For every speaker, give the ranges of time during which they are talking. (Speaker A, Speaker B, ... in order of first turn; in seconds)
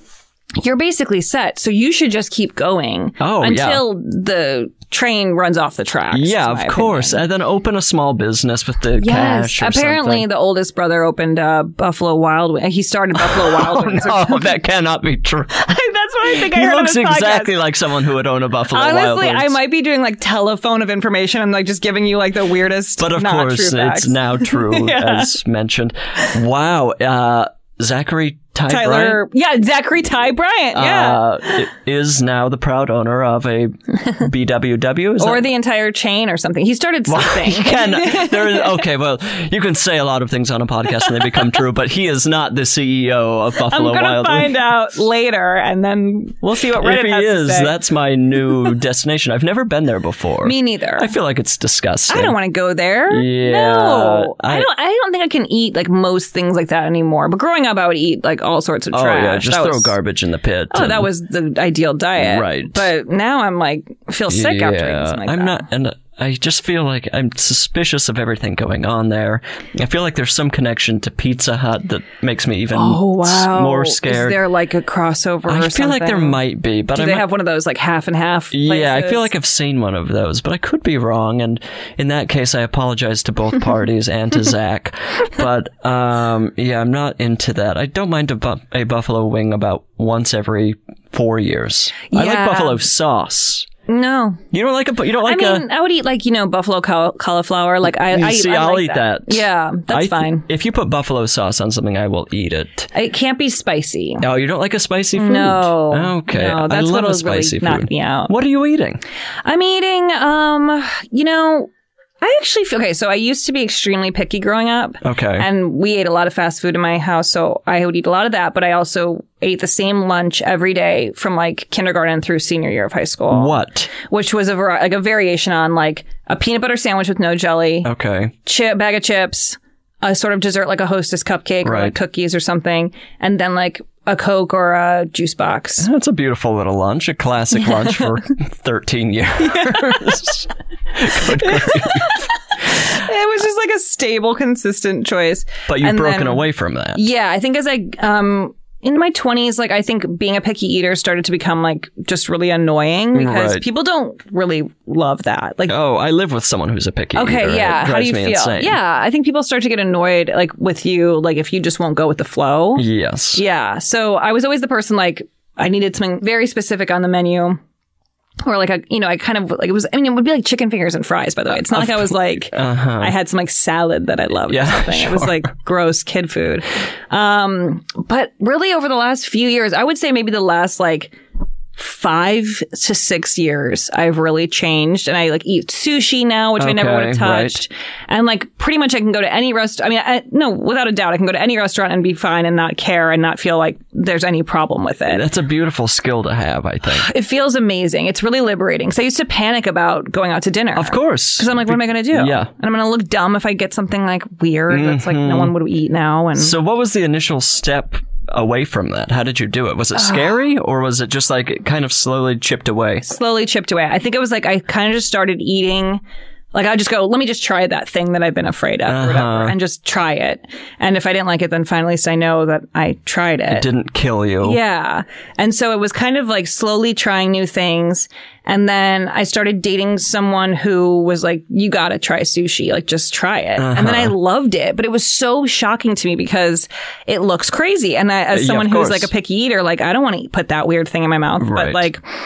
Speaker A: 0.6-7.2, 9.0-14.5, 15.5-17.5, 18.7-25.3, 28.7-31.7, 35.2-38.8, 41.0-41.4, 43.7-47.7, 50.4-51.1, 52.1-60.0, 60.7-65.6, 72.7-76.4, 76.9-79.3, 92.1-92.8, 93.9-94.4, 95.2-100.5, 102.9-104.2, 105.2-108.3, 109.4-127.9, 128.4-135.9, 137.7-138.0, 139.4-140.1, 141.2-155.7, 157.1-167.6, 168.4-181.1, 181.8-195.2, 196.9-206.6, 209.9-210.3, 213.0-216.0, 216.5-223.7, 224.4-242.0
Speaker B: 3.2-3.8, 6.1-10.2, 13.2-15.6, 16.2-19.6, 23.0-29.2, 30.7-35.5, 37.1-44.6, 46.6-52.4, 53.1-54.7, 58.9-61.1, 62.2-62.9, 64.3-74.4, 75.5-77.3, 78.5-93.7, 94.5-95.7, 98.1-102.9, 104.2-109.0, 115.0-115.5, 123.3-123.9, 127.8-128.3, 131.6-131.9, 135.8-142.3, 145.7-147.0, 153.1-153.7, 155.7-158.8, 162.8-163.4, 171.7-173.1, 174.5-175.5, 186.6-187.6, 195.1-197.1, 200.8-202.5, 204.7-205.5, 206.4-213.0, 218.8-219.6, 223.5-224.6, 233.6-234.1, 238.3-239.1, 241.4-241.9